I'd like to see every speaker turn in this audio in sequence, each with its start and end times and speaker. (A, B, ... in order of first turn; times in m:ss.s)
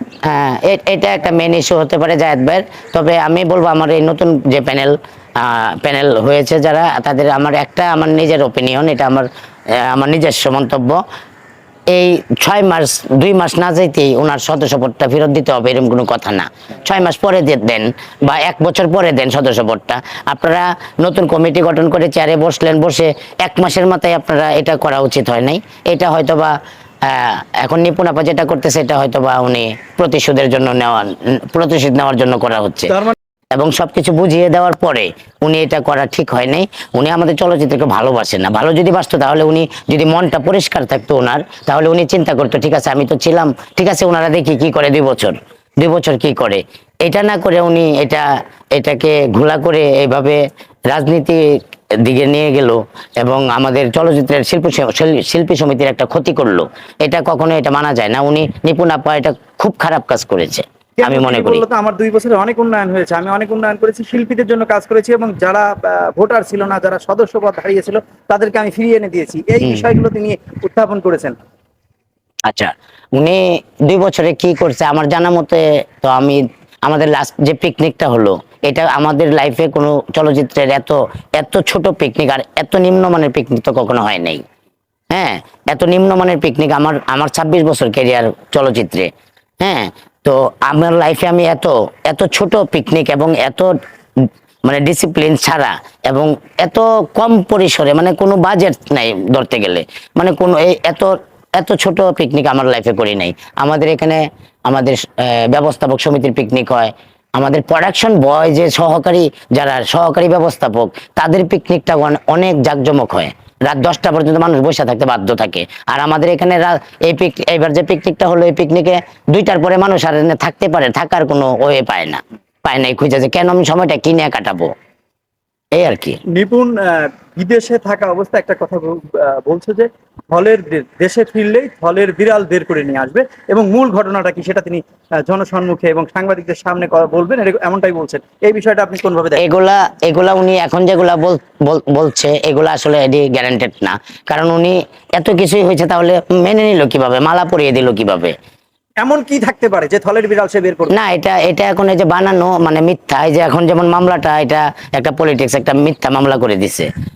0:00.2-0:11.0 A
0:11.9-0:32.9 A
0:33.5-0:51.4 A
0:52.0-1:01.6 A
1:01.0-1:11.4 B
1:12.5-1:24.4 A
1:25.1-1:29.1 A
1:29.6-2:04.7 A
2:05.7-2:06.2 A
2:06.3-2:19.4 B
2:19.4-2:28.3 A
2:29.0-2:30.9 B
2:30.9-2:36.9 A